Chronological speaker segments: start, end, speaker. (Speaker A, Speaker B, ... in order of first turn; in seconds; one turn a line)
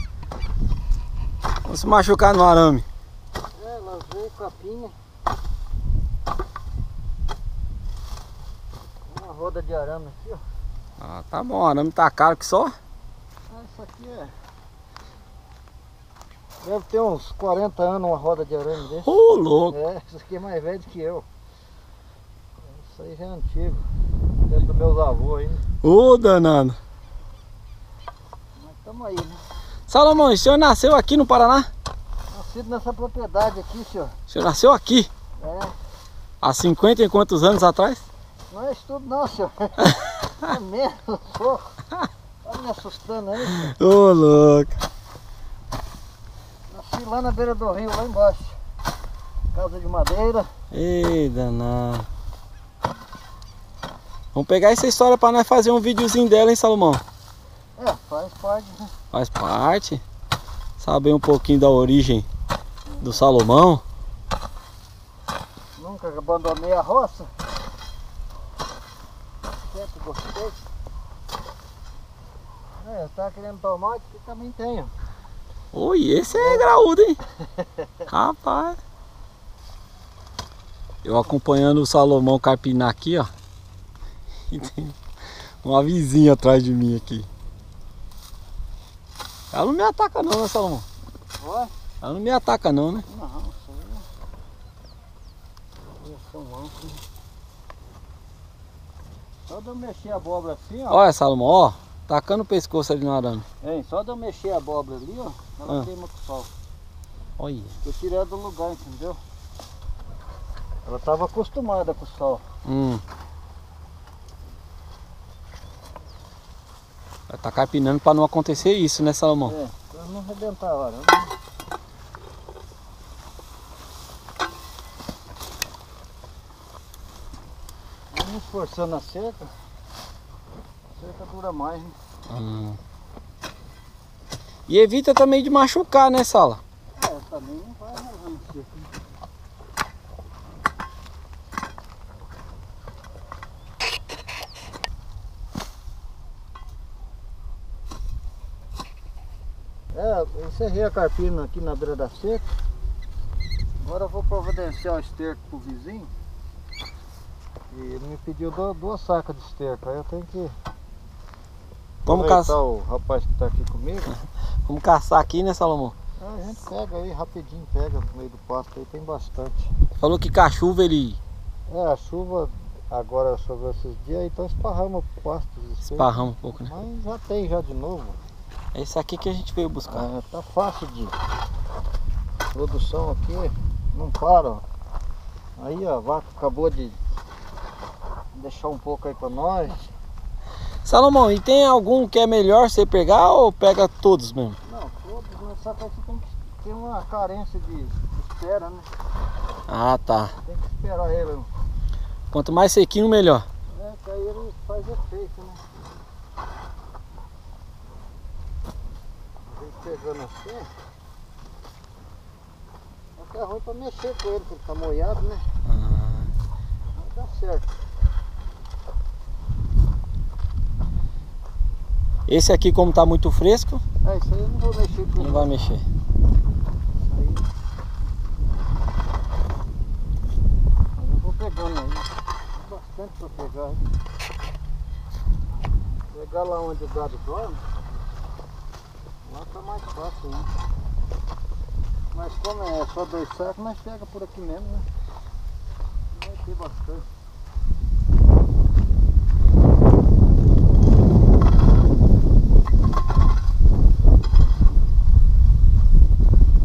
Speaker A: 1.6-2.9
Speaker B: 3.5-4.9
Speaker B: 9.1-10.4
Speaker A: 11.0-12.7
Speaker B: 13.5-14.3
Speaker B: 16.6-21.2
Speaker A: 18.9-19.8
Speaker B: 22.6-23.9
Speaker B: 24.4-25.6
Speaker A: 25.8-26.8
Speaker B: 28.6-29.4
Speaker A: 29.9-31.7
Speaker B: 32.3-34.2
Speaker A: 34.3-35.1
Speaker B: 35.4-35.7
Speaker A: 36.4-38.1
Speaker B: 38.5-41.8
Speaker B: 42.4-43.7
Speaker A: 43.5-44.8
Speaker B: 46.7-48.6
Speaker B: 49.5-50.5
Speaker A: 50.7-52.1
Speaker A: 54.3-57.0
Speaker B: 57.8-58.9
Speaker A: 59.1-60.0
Speaker A: 60.8-62.2
Speaker B: 62.9-63.3
Speaker A: 63.0-63.8
Speaker B: 65.8-67.3
Speaker B: 69.5-70.6
Speaker B: 72.8-74.9
Speaker A: 75.7-77.2
Speaker B: 76.3-76.7
Speaker B: 77.6-78.0
Speaker A: 78.1-78.8
Speaker A: 81.0-83.3
Speaker A: 84.5-85.0
Speaker A: 85.6-87.3
Speaker A: 89.5-90.9
Speaker B: 91.4-91.7
Speaker A: 92.0-93.0
Speaker B: 93.1-94.0
Speaker B: 96.0-97.0
Speaker B: 99.5-101.0
Speaker A: 100.9-103.4
Speaker B: 103.6-106.5
Speaker A: 107.4-107.8
Speaker B: 107.8-109.2
Speaker B: 110.8-112.4
Speaker A: 112.6-113.0
Speaker A: 117.3-119.5
Speaker B: 119.4-121.3
Speaker B: 128.1-129.5
Speaker B: 130.9-132.0
Speaker A: 132.3-132.8
Speaker A: 134.7-136.6
Speaker B: 137.0-138.9
Speaker B: 149.9-152.6
Speaker B: 153.8-156.1
Speaker B: 157.7-160.6
Speaker A: 162.1-162.5
Speaker B: 162.1-164.1
Speaker A: 164.7-165.9
Speaker B: 166.2-169.7
Speaker A: 170.0-171.2
Speaker B: 171.7-178.2
Speaker A: 175.8-176.7
Speaker A: 178.7-180.1
Speaker B: 179.9-181.2
Speaker B: 182.5-184.6
Speaker B: 185.6-187.0
Speaker B: 188.3-189.9
Speaker A: 190.8-194.6
Speaker B: 194.7-198.9
Speaker A: 199.7-200.3
Speaker B: 200.4-201.5
Speaker A: 202.3-203.4
Speaker B: 203.7-205.6
Speaker B: 209.5-210.7
Speaker B: 213.2-215.4
Speaker A: 215.6-216.3
Speaker B: 216.9-217.7
Speaker A: 222.3-223.8
Speaker B: 224.0-225.6
Speaker A: 225.2-225.8
Speaker B: 227.0-227.5
Speaker B: 231.0-233.8
Speaker B: 236.1-237.6
Speaker B: 239.2-240.5
Speaker B: 242.1-244.8
Speaker B: 246.1-247.1